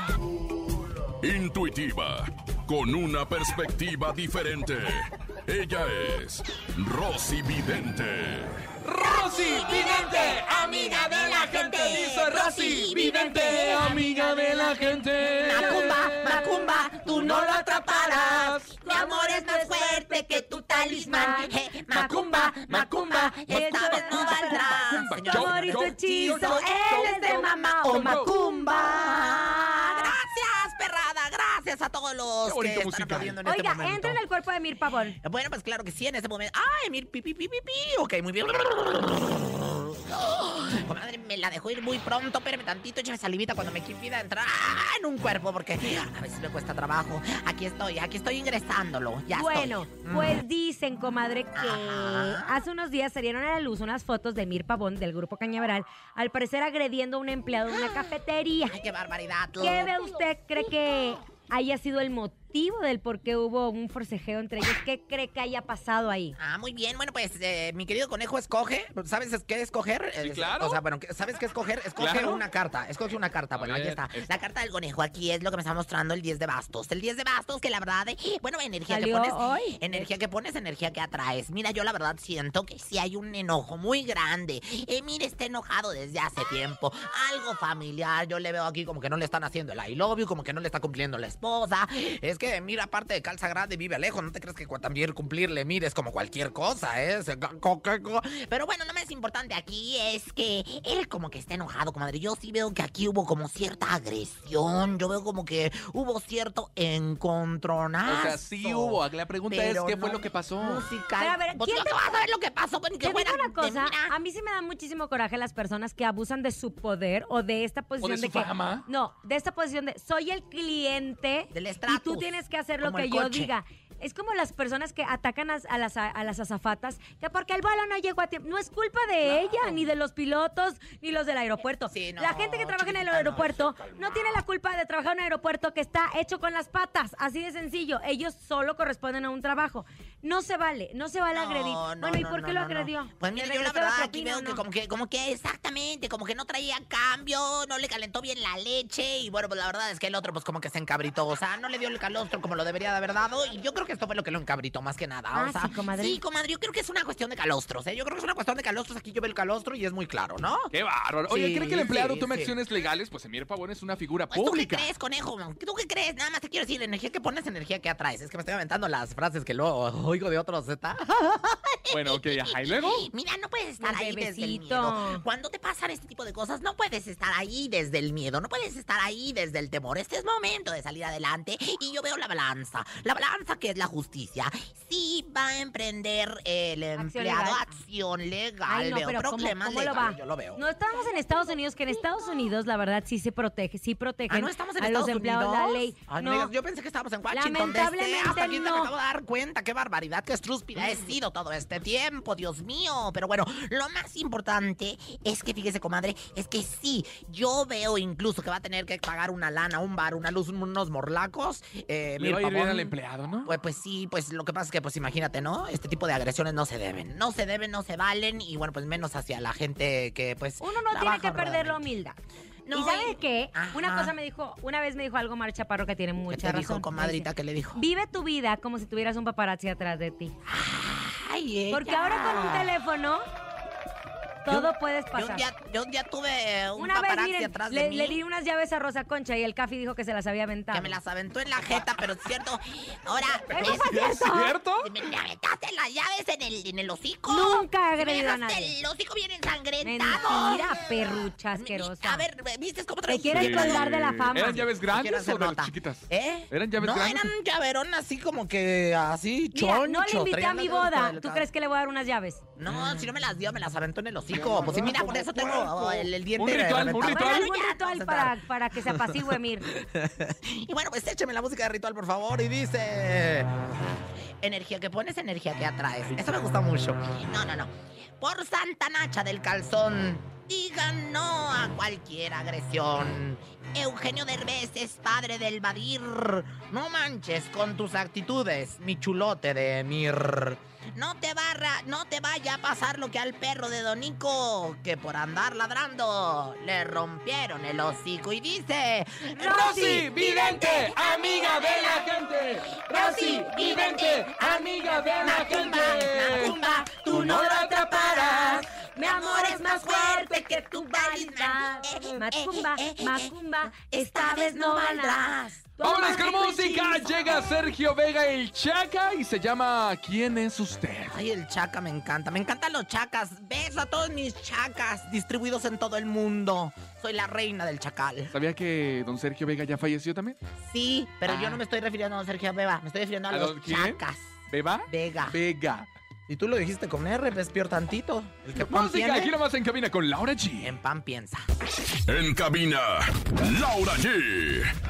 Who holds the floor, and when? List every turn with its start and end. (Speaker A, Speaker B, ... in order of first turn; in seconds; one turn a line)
Speaker A: 1.2-8.6
Speaker B: 8.8-18.7
Speaker C: 9.0-14.0
Speaker D: 14.6-14.9
Speaker C: 15.4-34.2
Speaker D: 15.6-15.9
Speaker D: 18.9-30.1
Speaker B: 21.9-27.1
Speaker B: 27.9-28.3
Speaker B: 32.4-33.4
Speaker D: 33.4-35.2
Speaker C: 35.2-50.4
Speaker D: 49.3-58.8
Speaker C: 51.5-52.5
Speaker C: 57.7-58.0
Speaker C: 58.7-59.9
Speaker D: 59.6-66.4
Speaker C: 66.4-114.1
Speaker B: 70.2-70.8
Speaker B: 72.0-72.4
Speaker B: 73.5-74.4
Speaker D: 78.9-80.1
Speaker B: 108.0-110.9
Speaker D: 111.2-112.0
Speaker D: 113.0-144.6
Speaker B: 118.0-118.8
Speaker C: 121.5-123.5
Speaker C: 131.9-134.4
Speaker C: 141.3-160.7
Speaker D: 155.3-156.2
Speaker B: 160.7-164.9
Speaker C: 161.3-162.5
Speaker C: 164.3-190.6
Speaker B: 171.9-173.1
Speaker D: 173.8-175.2
Speaker D: 187.0-187.8
Speaker D: 188.7-196.5
Speaker C: 194.3-221.8
Speaker D: 197.3-198.9
Speaker B: 212.2-213.5
Speaker D: 220.6-222.2
Speaker C: 222.7-224.1
Speaker D: 222.7-230.3
Speaker C: 226.3-227.8
Speaker C: 230.4-232.7
Speaker D: 231.7-233.2
Speaker D: 234.4-235.4
Speaker C: 234.5-238.2
Speaker D: 236.8-241.0
Speaker C: 240.7-250.9
Speaker D: 243.5-244.5
Speaker B: 243.6-244.9
Speaker D: 247.3-248.7
Speaker D: 249.8-252.3
Speaker C: 251.5-253.9
Speaker D: 253.1-254.7
Speaker B: 253.3-257.3
Speaker C: 254.7-261.5
Speaker D: 259.5-262.4
Speaker C: 262.6-273.5
Speaker B: 262.7-263.0
Speaker B: 264.4-267.5
Speaker D: 267.1-269.7
Speaker C: 274.4-315.7
Speaker D: 299.4-300.1
Speaker B: 299.4-308.6
Speaker D: 306.4-307.1
Speaker D: 308.9-317.1
Speaker B: 315.8-321.1
Speaker C: 321.0-328.3
Speaker B: 328.3-330.4
Speaker C: 330.6-335.4
Speaker B: 331.2-331.6
Speaker B: 333.3-334.0
Speaker B: 334.5-335.9
Speaker C: 336.3-339.4
Speaker B: 338.5-340.7
Speaker C: 340.6-341.4
Speaker A: 342.1-344.7